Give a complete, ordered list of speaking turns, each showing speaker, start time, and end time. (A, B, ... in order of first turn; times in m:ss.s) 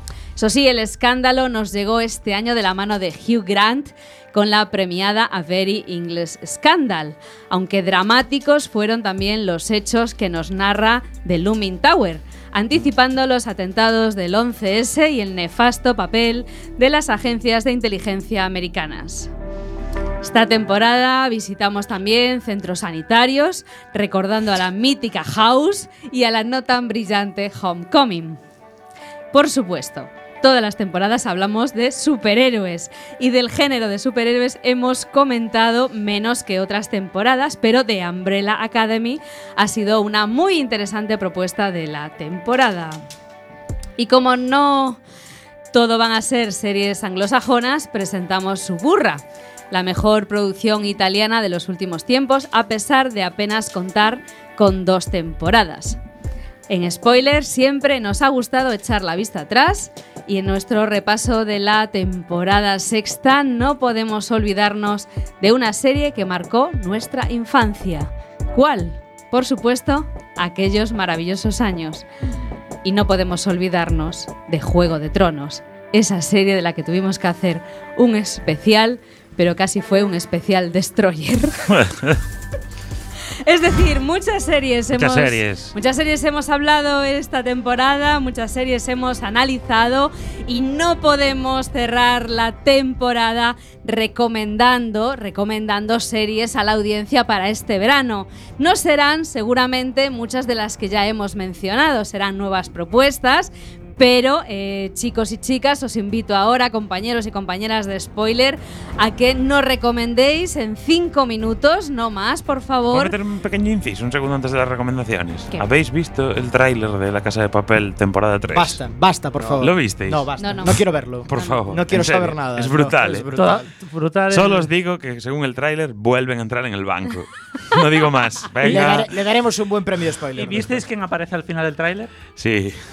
0:00.4-0:19.3 A
0:20.2-0:28.4 A
0:29.3-0:43.0 A
0:44.0-0:45.0 A
0:45.7-0:56.0 A
0:56.7-1:12.0 A
1:12.8-1:21.7 A
1:21.7-1:22.2 B
1:23.4-1:53.1 A
1:24.9-1:25.7 B
1:52.9-1:58.8 B
1:58.5-2:03.7 C
1:59.6-2:00.3 B
2:00.4-2:00.8 A
2:01.3-2:03.3 B
2:01.3-2:01.6 A
2:03.4-2:04.7 D
2:04.3-2:09.1 B
2:08.6-2:10.8 C
2:10.4-2:12.1 D
2:12.4-2:12.8 B